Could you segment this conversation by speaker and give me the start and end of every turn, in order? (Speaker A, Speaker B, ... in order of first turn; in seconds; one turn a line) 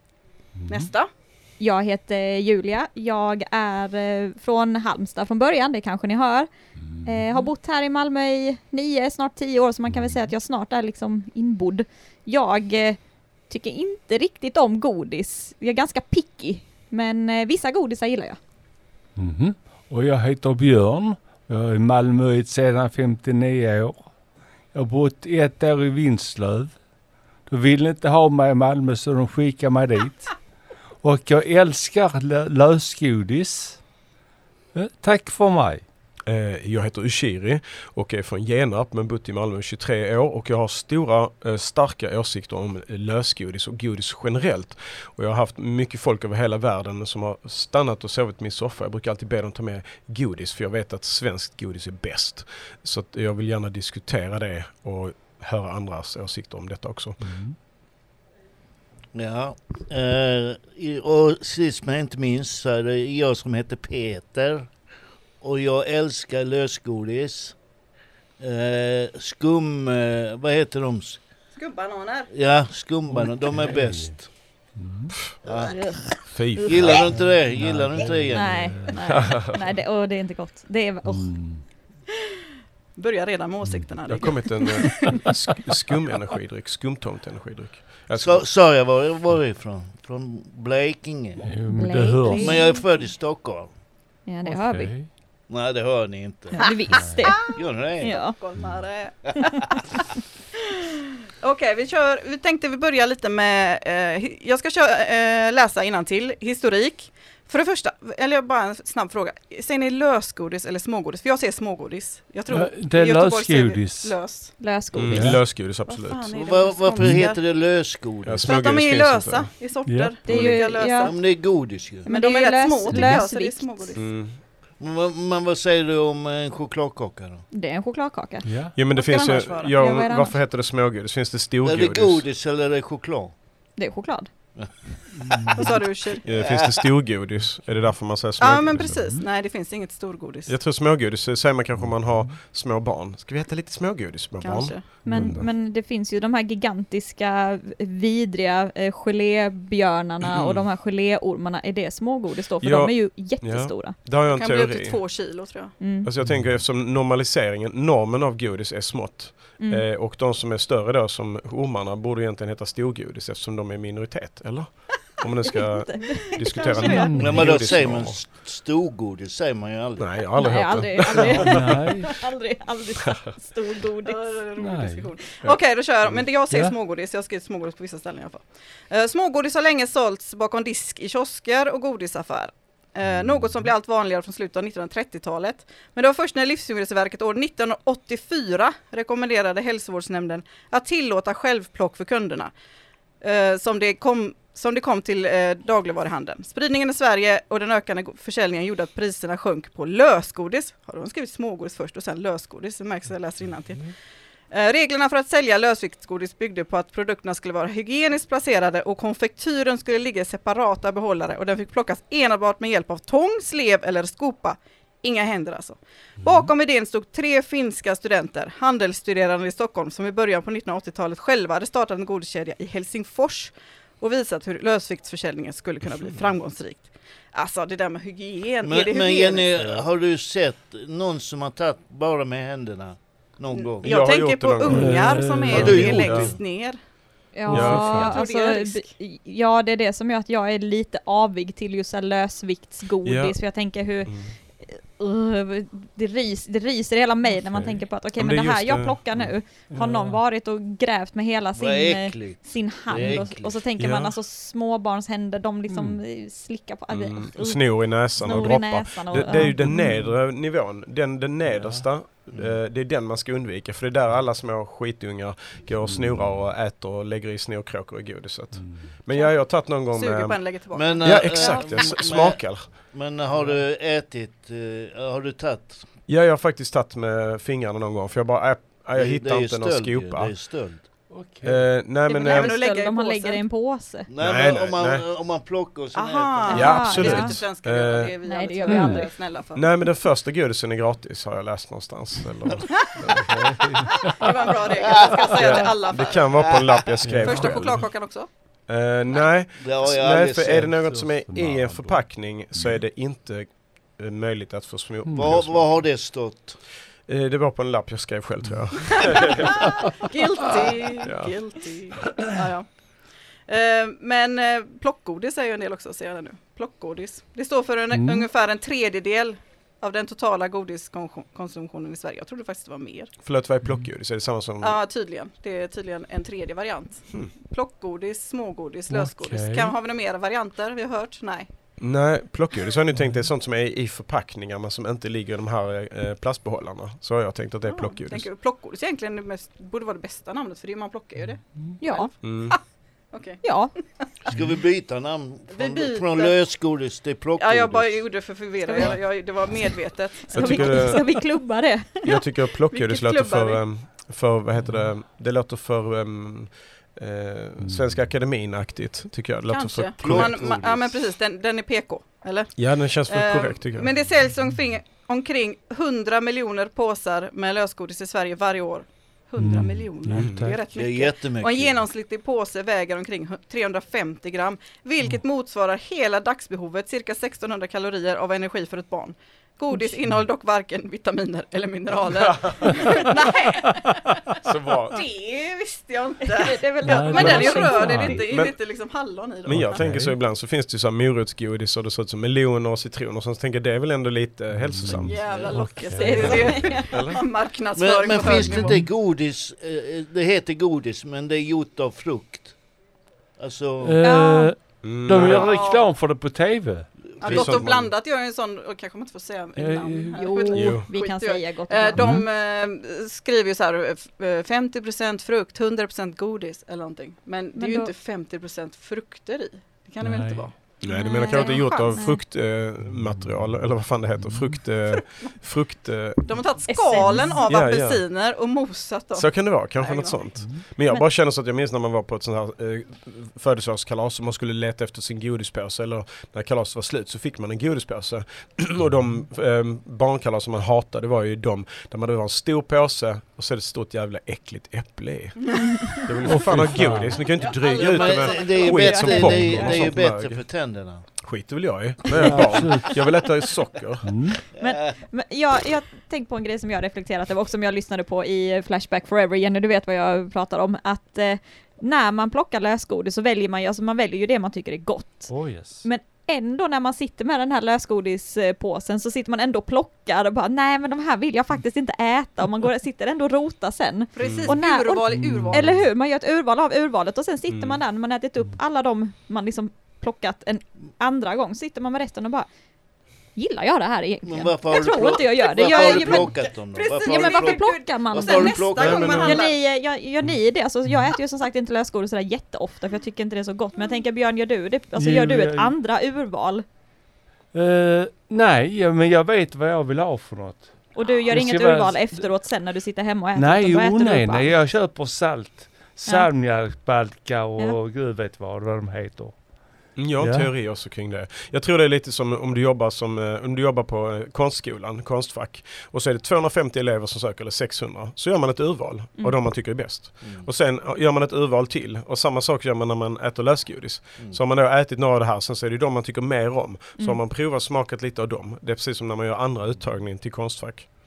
Speaker A: 0.6-0.9
Speaker B: 0.7-1.1
Speaker C: 1.6-6.5
Speaker A: 6.9-7.4
Speaker C: 7.0-18.4
Speaker A: 9.9-10.2
Speaker A: 19.2-24.1
Speaker A: 24.7-26.8
Speaker A: 27.5-30.3
Speaker A: 31.0-33.8
Speaker A: 34.7-35.8
Speaker D: 36.3-57.2
Speaker A: 57.2-57.6
Speaker E: 59.1-64.7
Speaker E: 65.4-67.5
Speaker E: 68.4-71.2
Speaker B: 71.5-72.3
Speaker E: 72.3-74.3
Speaker A: 73.1-74.1
Speaker A: 74.8-75.1
Speaker E: 75.4-75.8
Speaker C: 75.7-76.9
Speaker D: 76.3-77.1
Speaker E: 76.6-78.8
Speaker A: 77.1-79.0
Speaker C: 78.3-81.3
Speaker D: 79.1-79.6
Speaker A: 81.0-81.6
Speaker B: 83.0-85.3
Speaker A: 83.6-84.0
Speaker D: 84.1-88.5
Speaker A: 84.9-85.3
Speaker E: 88.1-91.5
Speaker A: 91.4-92.7
Speaker C: 91.7-92.8
Speaker E: 92.4-93.7
Speaker C: 94.2-94.9
Speaker A: 94.4-95.1
Speaker E: 95.5-96.7
Speaker C: 96.5-98.4
Speaker A: 96.9-97.2
Speaker E: 97.4-98.4
Speaker B: 98.0-100.0
Speaker B: 100.7-114.6
Speaker A: 112.5-114.2
Speaker C: 114.6-115.4
Speaker D: 115.0-116.3
Speaker A: 115.1-115.5
Speaker B: 115.7-117.4
Speaker E: 116.4-118.5
Speaker A: 117.0-117.3
Speaker D: 118.2-119.5
Speaker B: 118.4-121.2
Speaker A: 119.8-120.2
Speaker C: 120.2-121.1
Speaker D: 120.3-120.6
Speaker E: 120.8-122.1
Speaker C: 122.0-124.0
Speaker B: 122.0-124.0
Speaker A: 122.9-123.2
Speaker D: 124.0-124.4
Speaker E: 124.8-127.4
Speaker C: 127.5-128.5
Speaker A: 128.4-128.7
Speaker D: 128.7-132.2
Speaker B: 128.9-129.7
Speaker C: 129.8-130.3
Speaker E: 131.6-133.3
Speaker C: 133.8-134.3
Speaker A: 135.1-135.8
Speaker B: 135.5-136.2
Speaker D: 136.2-139.0
Speaker E: 136.3-136.8
Speaker B: 138.4-140.5
Speaker A: 138.8-139.2
Speaker D: 140.5-145.4
Speaker A: 141.7-142.4
Speaker B: 144.4-145.0
Speaker C: 145.0-153.9
Speaker A: 145.1-145.4
Speaker D: 150.2-150.6
Speaker D: 152.6-155.0
Speaker B: 154.3-155.7
Speaker C: 155.8-156.1
Speaker D: 156.0-168.2
Speaker A: 156.2-156.6
Speaker C: 159.6-159.8
Speaker C: 165.6-167.2
Speaker B: 166.6-167.1
Speaker A: 166.8-167.6
Speaker E: 167.2-170.2
Speaker D: 170.0-172.1
Speaker C: 170.3-174.4
Speaker A: 171.3-172.1
Speaker B: 174.0-192.5
Speaker A: 174.6-175.1
Speaker D: 175.4-176.3
Speaker A: 176.5-176.7
Speaker B: 193.2-203.9
Speaker B: 204.5-229.6
Speaker A: 216.2-216.5
Speaker E: 228.6-234.0
Speaker B: 233.5-236.8
Speaker D: 233.8-236.3
Speaker A: 234.7-235.9
Speaker E: 235.5-236.4
Speaker C: 237.3-259.9
Speaker A: 237.5-238.1
Speaker B: 237.5-238.9
Speaker D: 237.5-238.1
Speaker D: 243.0-243.4
Speaker D: 244.1-244.3
Speaker D: 247.5-249.3
Speaker A: 249.7-250.2
Speaker E: 251.6-253.6
Speaker D: 253.8-254.1
Speaker A: 255.7-256.0
Speaker D: 256.9-270.4
Speaker A: 259.3-260.1
Speaker A: 261.5-261.9
Speaker A: 265.9-266.4
Speaker A: 268.6-268.9
Speaker B: 269.1-272.0
Speaker E: 270.7-275.9
Speaker D: 271.0-272.7
Speaker D: 276.1-280.3
Speaker E: 278.9-280.8
Speaker A: 281.1-281.7
Speaker D: 281.4-282.5
Speaker C: 282.1-284.1
Speaker B: 282.2-283.4
Speaker E: 284.1-287.1
Speaker D: 284.2-285.0
Speaker B: 285.9-289.6
Speaker C: 286.5-287.4
Speaker D: 286.5-288.1
Speaker C: 288.2-289.1
Speaker A: 288.7-289.0
Speaker D: 289.6-293.5
Speaker A: 293.2-294.2
Speaker B: 294.0-296.4
Speaker D: 295.4-297.9
Speaker E: 296.4-296.8
Speaker A: 297.0-297.6
Speaker B: 297.2-298.3
Speaker D: 298.7-305.7
Speaker E: 299.6-301.0
Speaker A: 300.6-302.8
Speaker A: 305.1-305.3
Speaker E: 305.1-306.6
Speaker D: 307.1-309.8
Speaker B: 309.0-312.7
Speaker A: 309.6-309.9
Speaker D: 311.0-311.3
Speaker B: 313.5-323.1
Speaker A: 317.9-318.3
Speaker D: 323.2-324.8
Speaker A: 323.6-323.9
Speaker B: 324.6-331.5
Speaker A: 328.9-329.7
Speaker D: 331.8-338.3
Speaker B: 337.7-342.6
Speaker C: 341.8-342.1
Speaker D: 342.2-342.6
Speaker B: 343.1-343.4
Speaker C: 343.4-343.7
Speaker E: 344.3-348.0
Speaker B: 345.5-346.4
Speaker B: 347.4-351.0
Speaker C: 348.6-349.7
Speaker C: 350.3-352.0
Speaker D: 350.3-351.2
Speaker D: 352.0-360.6
Speaker B: 352.0-353.6
Speaker A: 357.6-358.1
Speaker B: 359.5-384.1
Speaker E: 360.0-360.9
Speaker D: 362.6-363.9
Speaker A: 369.4-370.6
Speaker E: 370.7-371.8
Speaker D: 382.1-382.8
Speaker A: 382.7-383.0
Speaker A: 383.6-384.4
Speaker D: 384.4-385.0
Speaker B: 384.9-389.8
Speaker C: 386.2-388.2
Speaker A: 386.8-388.2
Speaker D: 388.2-388.5
Speaker D: 389.4-395.4
Speaker A: 389.6-390.2
Speaker A: 394.5-396.8
Speaker B: 394.9-398.8
Speaker E: 395.2-395.7
Speaker C: 395.8-397.0
Speaker D: 396.1-397.2
Speaker E: 397.7-402.6
Speaker A: 398.4-398.9
Speaker E: 403.4-404.0
Speaker A: 403.8-406.9
Speaker C: 404.0-404.5
Speaker D: 404.8-405.6
Speaker B: 405.2-405.9
Speaker E: 407.2-407.6
Speaker D: 407.2-407.9
Speaker B: 407.2-420.6
Speaker A: 409.6-410.2
Speaker C: 410.1-412.2
Speaker D: 410.5-410.9
Speaker A: 411.9-412.2
Speaker C: 417.6-417.9
Speaker A: 420.0-420.6
Speaker D: 420.8-426.4
Speaker C: 420.9-422.2
Speaker B: 421.3-421.6
Speaker A: 422.9-423.6
Speaker A: 424.2-424.6
Speaker B: 426.2-430.2
Speaker C: 426.7-427.5
Speaker D: 427.5-428.0
Speaker D: 429.1-450.4
Speaker A: 430.4-430.6
Speaker B: 445.4-445.8
Speaker C: 445.7-446.0
Speaker A: 446.2-447.2
Speaker B: 447.0-449.9
Speaker E: 447.6-451.0
Speaker C: 448.7-449.5
Speaker D: 451.2-454.2
Speaker A: 452.1-453.0
Speaker A: 454.0-454.4
Speaker C: 454.6-482.5
Speaker E: 454.6-454.8
Speaker A: 465.3-465.9
Speaker B: 474.1-475.7
Speaker D: 474.2-474.5
Speaker A: 475.1-475.9
Speaker D: 477.5-477.8
Speaker C: 483.4-486.4
Speaker E: 484.2-489.3
Speaker B: 485.5-489.6
Speaker C: 486.9-496.6
Speaker D: 488.8-489.3
Speaker A: 494.9-495.7
Speaker A: 497.5-502.3
Speaker C: 500.9-504.5
Speaker A: 503.3-509.4
Speaker D: 509.9-530.9
Speaker A: 510.2-510.5
Speaker E: 520.2-520.5